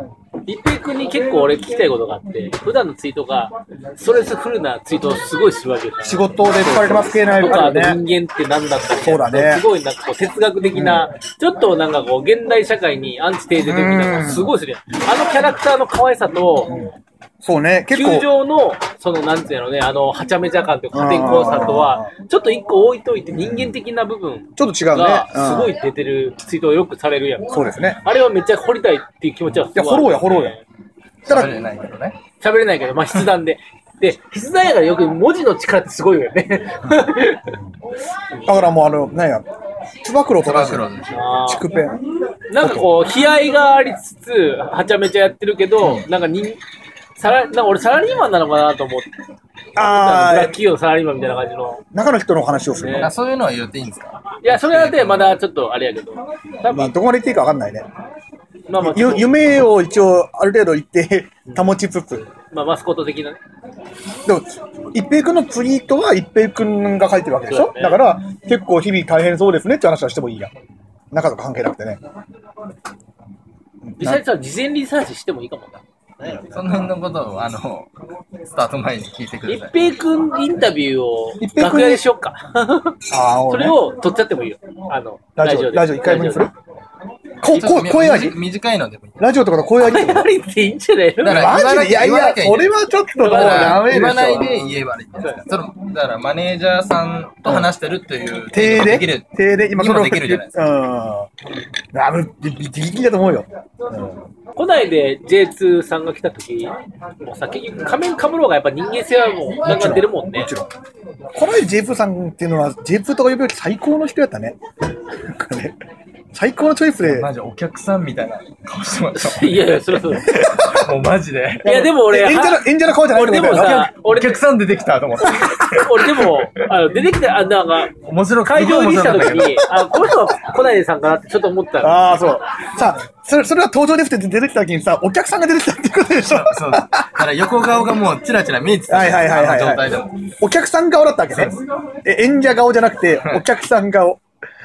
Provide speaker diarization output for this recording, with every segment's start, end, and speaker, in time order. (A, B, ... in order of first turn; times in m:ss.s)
0:00.4-0:16.7 A
0:06.0-0:08.0 B
0:09.0-0:09.6 B
0:10.7-0:11.0 B
0:13.6-0:14.5 B
0:16.7-0:18.3 B
0:17.9-0:30.6 A
0:20.9-0:22.1 B
0:23.4-0:23.7 B
0:24.6-0:25.8 B
0:27.5-0:28.0 B
0:29.7-0:30.6 B
0:31.2-0:32.2 C
0:32.4-0:37.6 A
0:38.4-0:39.5 B
0:40.0-0:40.9 B
0:40.4-0:41.2 C
0:41.1-0:41.7 A
0:41.4-0:42.0 B
0:42.5-0:46.6 A
0:42.6-0:42.9 B
0:47.2-0:49.1 A
0:49.8-0:50.6 B
0:49.8-0:51.8 A
0:51.9-0:53.1 B
0:52.8-0:53.1 A
0:53.0-0:55.3 C
0:54.4-0:56.9 A
0:56.7-0:57.9 B
0:58.7-0:59.4 A
0:58.8-1:02.3 B
1:02.5-1:03.4 A
1:04.2-1:10.5 B
1:07.5-1:08.0 A
1:11.1-1:12.0 B
1:13.8-1:14.2 B
1:14.0-1:16.6 A
1:16.4-1:17.9 C
1:18.4-1:19.9 C
1:19.5-1:26.5 A
1:21.4-1:22.0 B
1:23.1-1:23.8 B
1:25.4-1:26.5 B
1:27.4-1:28.4 B
1:27.4-1:29.3 C
1:29.2-1:30.3 B
1:29.8-1:31.6 A
1:31.2-1:40.5 C
1:31.3-1:34.5 B
1:33.2-1:34.4 A
1:37.4-1:37.7 B
1:38.5-1:41.3 B
1:41.9-1:44.2 B
1:44.6-1:50.5 A
1:49.6-1:50.7 B
1:51.3-1:54.6 B
1:55.1-1:55.8 B
1:56.3-1:57.3 B
1:57.0-2:01.9 C
1:59.1-2:00.3 A
2:01.6-2:04.4 A
2:01.7-2:03.8 B
2:03.4-2:06.6 C
2:05.2-2:07.9 A
2:08.0-2:09.6 C
2:08.4-2:12.0 A
2:11.8-2:17.2 B
2:16.2-2:20.3 C
2:18.9-2:24.2 B
2:21.3-2:21.6 C